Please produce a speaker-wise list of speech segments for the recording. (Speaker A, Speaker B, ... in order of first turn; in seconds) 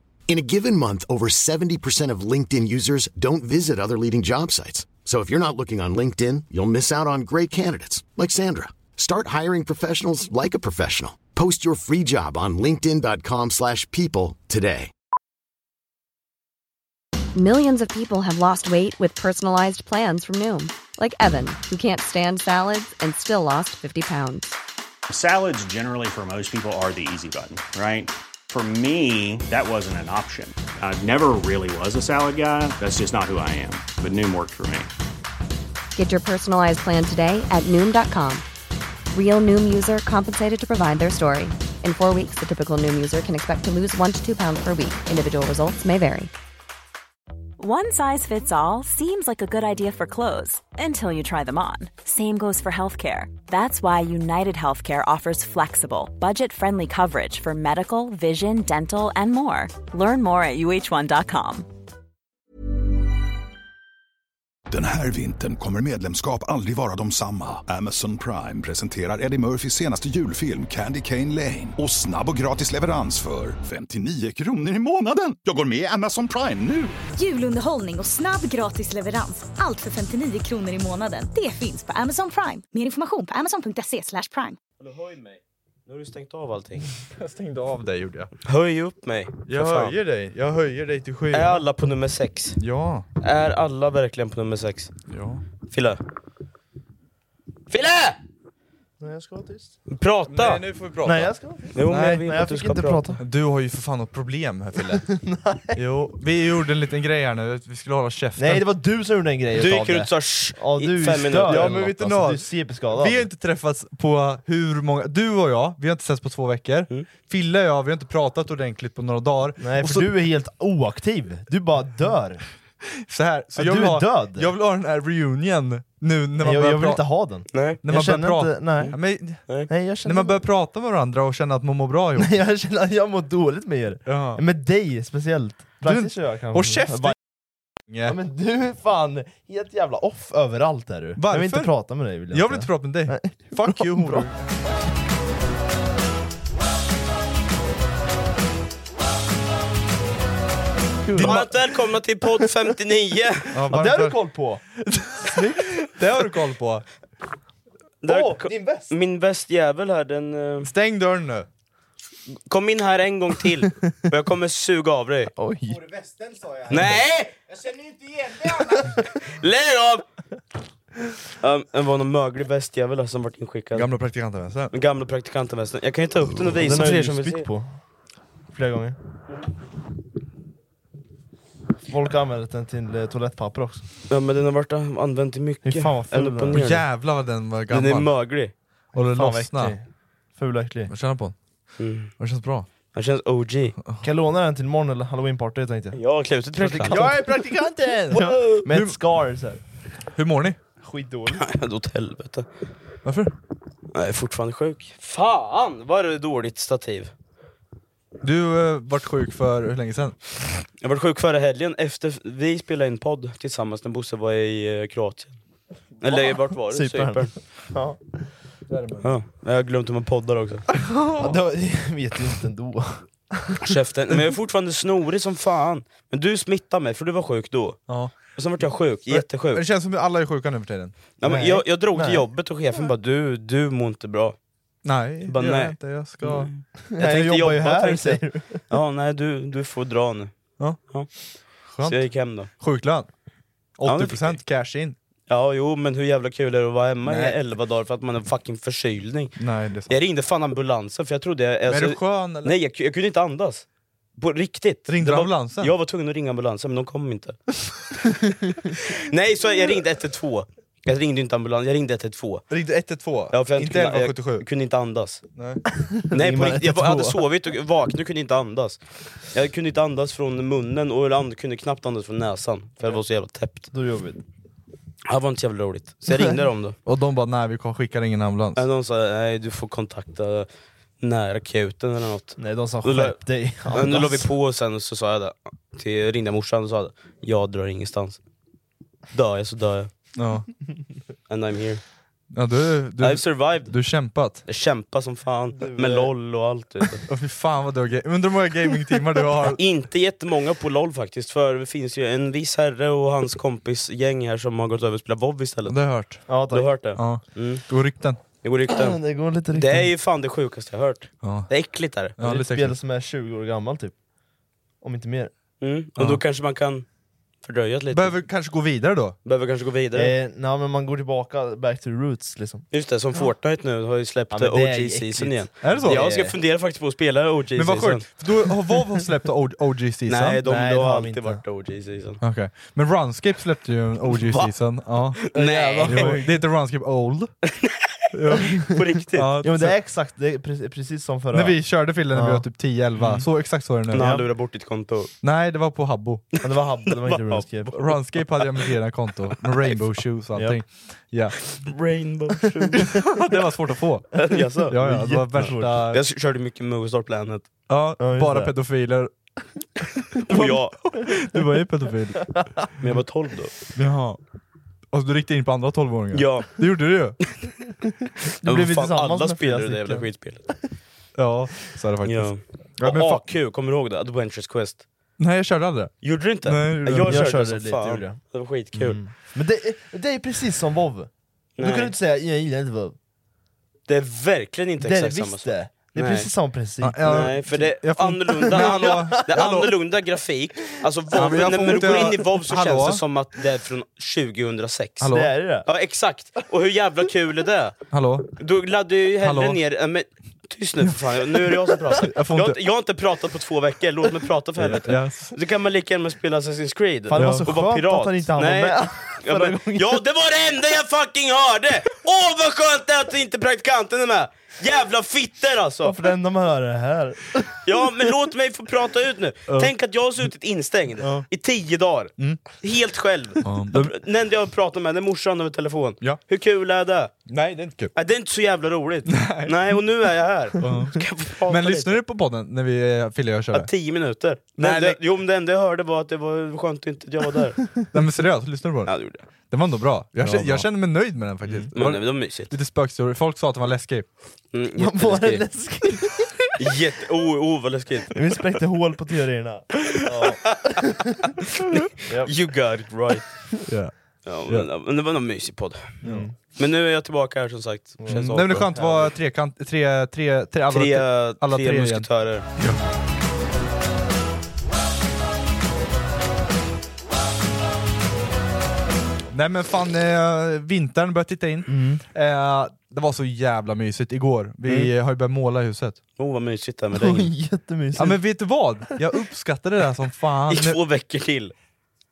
Speaker A: 0.3-14.9
Speaker B: 17.4-24.6, 36.0-38.4, 39.1-46.3
Speaker C: 25.1-34.9
Speaker D: 47.6-61.7
Speaker E: 64.7-76.9
Speaker F: 77.2-84.6
Speaker G: 84.8-86.9, 88.5-90.0, 91.3-92.6, 93.2-94.9, 95.7-96.0, 97.7-98.2, 99.9-100.6, 101.7-103.0, 109.5-111.8, 127.5-127.8, 151.2-153.9, 158.0-160.7, 162.5-165.3, 166.7-167.4, 168.4-170.1, 171.4-173.9, 174.7-177.5, 184.1-186.9, 187.7-188.5, 191.8-192.1, 192.9-193.8, 195.9-197.1, 198.1-198.6, 201.4-202.5, 203.9-207.1, 210.8-215.4, 216.0-217.3, 219.0-220.7, 223.6-227.8, 228.3-229.7, 231.2-234.4, 235.3-241.1, 241.8-242.5, 243.8-244.4, 245.3-253.7, 254.2-257.4, 258.7-262.5, 263.3-265.2, 266.1-273.7, 275.1-276.8, 278.6-280.5, 281.0-288.2, 289.1-289.9, 291.3-291.8, 293.0-293.7, 294.4-297.0, 299.5-305.8, 306.5-307.6, 308.4-309.0, 309.5-312.1, 315.6-316.9, 317.4-318.2, 319.2-320.1, 322.7-328.1, 330.1-332.2, 334.1-334.5, 335.2-336.2, 337.5-339.3, 343.9-345.1, 347.0-347.5, 351.6-353.0, 354.1-354.8, 355.4-357.4, 360.2-360.8, 362.8-363.5, 366.1-366.5, 368.4-370.5, 372.1-374.8, 376.0-379.0, 381.6-381.9, 383.9-386.3, 387.0-395.1, 395.6-397.8, 398.4-415.9, 417.6-427.1, 427.9-432.0, 433.5-437.6, 438.9-439.2, 441.7-442.5, 444.5-445.4, 446.6-448.1, 451.6-453.3, 454.2-458.7, 460.7-462.5, 476.2-477.3, 480.5-481.5
Speaker H: 87.0-88.3, 89.5-91.7, 92.6-93.1, 95.1-95.4, 100.3-102.3, 103.2-105.1, 105.8-108.7, 111.5-120.1, 123.0-127.0, 127.8-132.3, 134.1-134.4, 135.8-137.2, 137.9-138.2, 141.2-141.7, 142.3-144.3, 151.1-151.5, 153.5-154.2, 154.8-156.8, 160.6-161.5, 173.7-174.7, 186.5-188.1, 188.9-189.8, 190.9-191.3, 192.2-192.7, 196.8-197.3, 198.7-199.0, 200.2-200.6, 203.0-203.3, 208.2-210.2, 218.7-219.1, 220.9-221.4, 227.9-228.1, 229.5-230.9, 234.8-236.5, 241.7-243.1, 243.8-245.0, 247.1-247.4, 249.4-249.9, 251.7-252.5, 254.9-255.7, 262.5-264.4, 265.4-265.6, 276.9-278.6, 290.2-290.5, 292.3-294.4, 297.1-299.6, 305.7-306.3, 307.0-308.2, 311.2-311.5, 312.2-312.8, 317.9-319.2, 325.6-326.1, 327.6-330.4, 332.2-337.3, 338.1-339.8, 341.3-344.2, 345.2-346.3, 347.7-351.6, 352.9-356.0, 357.7-359.1, 360.2-362.4, 363.8-364.2, 364.9-367.2, 371.1-373.2, 375.2-377.4, 386.8-389.8, 391.1-393.0, 395.0-395.3, 397.9-398.3, 399.2-399.6, 401.9-402.6, 404.6-405.4, 407.1-407.5, 421.0-421.3, 423.4-423.9, 427.3-427.9, 429.1-429.6, 430.6-433.7, 434.6-435.0, 437.9-444.1, 453.6-453.9, 456.0-456.3, 458.1-462.8, 469.3-476.0, 478.0-480.8
Speaker I: 99.0-99.8, 101.0-103.2, 104.9-105.8, 108.4-113.3, 119.6-122.4, 123.6-124.5, 126.4-129.0, 129.7-130.4, 132.2-137.2, 138.1-144.3, 151.1-151.7, 153.7-154.6, 158.1-158.9, 165.4-166.1, 176.5-177.7, 178.5-179.0, 181.9-183.8, 185.7-186.6, 189.1-190.9, 194.0-196.0, 196.6-199.6, 200.8-201.4, 216.1-218.2, 221.2-223.6, 231.2-232.2, 236.8-238.6, 265.8-267.2, 273.7-274.2, 282.4-284.3, 295.5-296.1, 306.3-306.7, 308.7-309.9, 312.2-313.9, 314.8-315.3, 319.9-322.7, 324.3-326.4, 330.4-331.4, 335.3-336.3, 339.4-342.4, 343.0-343.2, 343.9-344.2, 346.4-347.9, 354.7-355.7, 358.0-358.5, 361.4-361.6, 368.4-370.1, 377.0-378.2, 378.7-383.0, 384.8-387.3, 388.5-389.0, 395.1-395.7, 407.1-410.0, 415.8-417.7, 440.2-440.7, 444.8-446.3, 448.1-451.0, 452.1-452.3, 456.0-456.3, 458.0-459.2, 471.7-472.0, 474.7-474.9, 477.0-478.4